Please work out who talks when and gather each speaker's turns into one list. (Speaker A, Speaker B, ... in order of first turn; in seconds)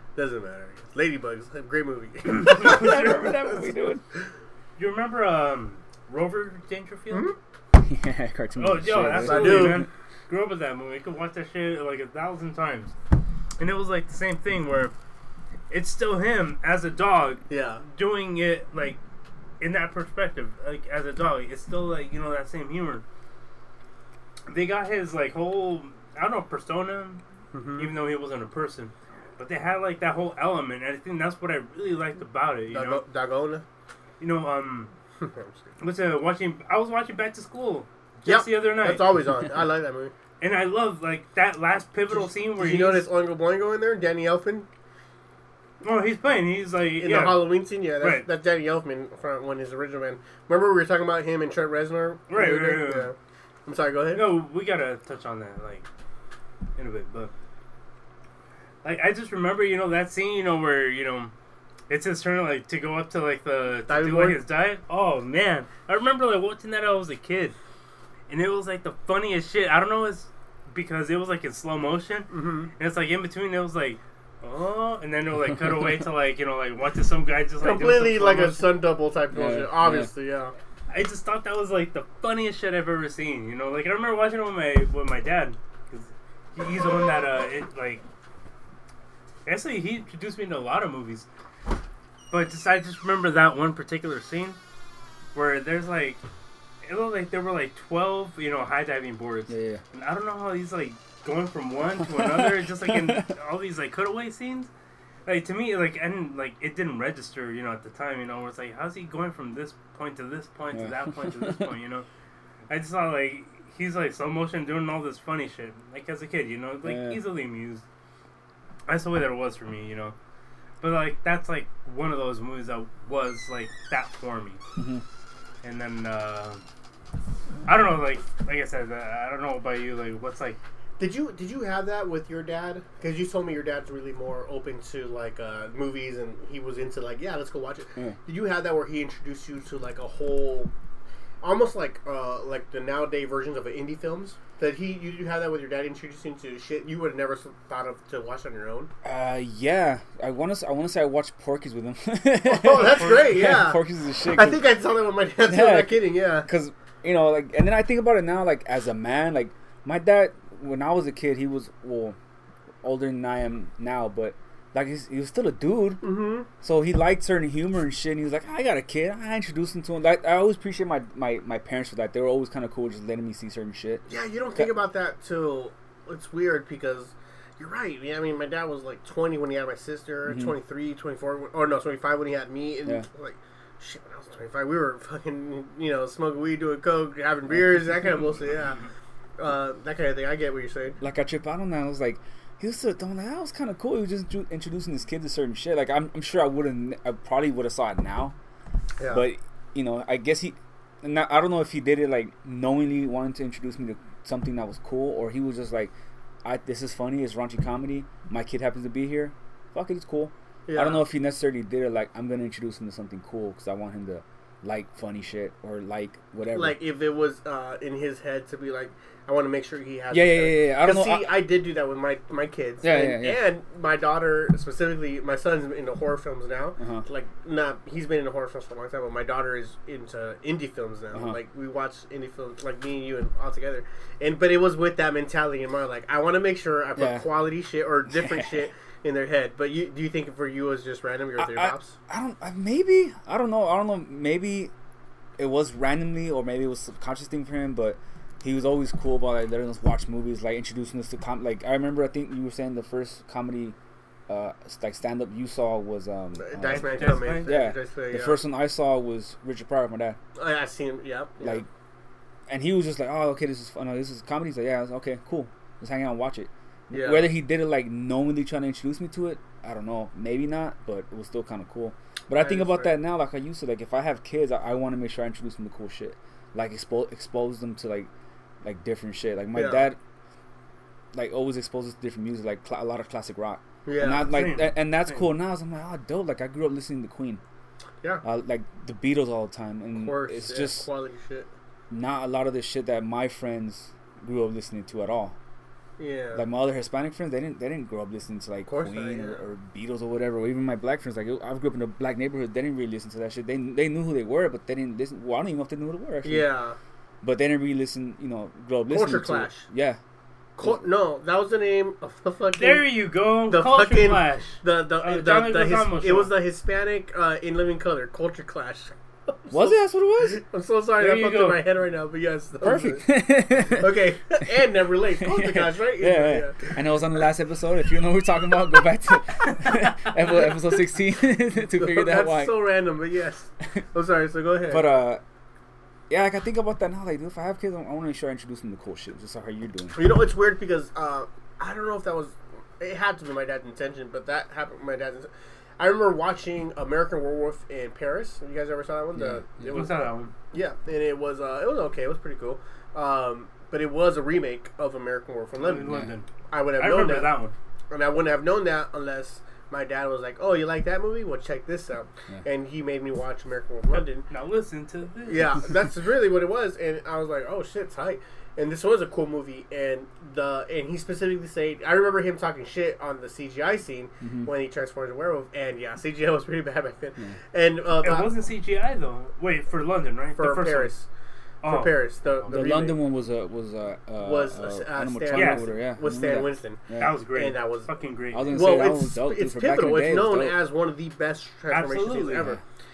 Speaker A: 0.2-3.2, 7.1-7.4, 9.1-9.9, 17.5-17.8, 27.5-27.9, 32.7-33.6, 35.2-35.7, 38.2-40.1, 42.2-44.7, 47.0-53.1, 53.7-54.3, 63.9-64.4, 72.3-72.7, 77.6-80.5, 131.0-140.7, 141.4-148.9, 152.4-153.8, 154.3-156.5, 166.0-166.5, 174.1-188.8, 189.4-191.0, 199.0-199.2, 210.7-211.1, 216.5-242.0, 256.4-258.4, 260.4-261.6, 266.9-267.3, 272.4-273.0, 279.6-279.9, 283.9-284.4, 289.9-291.5, 296.0-296.4, 298.6-299.4, 306.2-306.8, 308.9-309.7, 310.6-312.9, 313.5-326.8, 331.7-334.9, 339.9-355.9, 356.5-357.3, 357.9-364.3, 365.3-378.3, 380.4-381.1, 381.6-383.0, 384.2-387.9, 388.5-392.6
Speaker B: 2.4-3.3, 4.8-7.3, 8.6-12.9, 13.6-14.9, 15.7-19.0, 19.6-23.0, 24.5-27.2, 27.8-33.0, 34.2-34.9, 35.8-39.1, 40.4-43.1, 45.8-48.3, 52.3-53.1, 54.1-55.9, 56.8-57.3, 58.8-61.3, 61.9-67.6, 68.3-78.8, 80.9-88.0, 89.5-91.3, 92.3-94.6, 95.3-96.2, 96.8-104.7, 105.2-112.1, 112.7-117.8, 118.9-120.2, 120.8-124.6, 125.6-126.6, 127.7-130.6, 152.7-153.5, 256.7-257.5, 284.2-285.3, 312.6-316.4, 321.0-321.6, 349.7-350.3, 355.6-357.5, 363.9-365.7, 378.0-380.9, 381.6-382.5, 385.3-385.6, 387.0-388.8, 391.7-392.5
Speaker C: 2.4-4.0, 7.7-9.9, 79.3-80.1, 99.5-99.8, 102.0-103.3, 110.7-111.7, 116.8-117.2, 124.8-125.0, 149.0-154.7, 155.5-162.2, 162.8-166.1, 166.6-174.7, 180.2-180.6, 191.0-198.4, 199.1-205.9, 206.4-216.8, 220.1-221.4, 222.8-223.4, 226.8-227.1, 237.0-237.3, 238.1-238.6, 241.4-244.7, 245.4-253.8, 254.3-260.2, 261.4-261.7, 262.5-278.1, 278.6-280.0, 281.1-287.4, 288.2-290.9, 291.9-295.4, 296.3-306.5, 307.2-310.0, 319.5-320.4, 322.6-324.0, 325.2-332.7, 334.7-335.2, 336.1-340.0, 349.1-349.8, 355.8-356.1, 374.2-374.5, 382.5-387.2, 388.3-390.6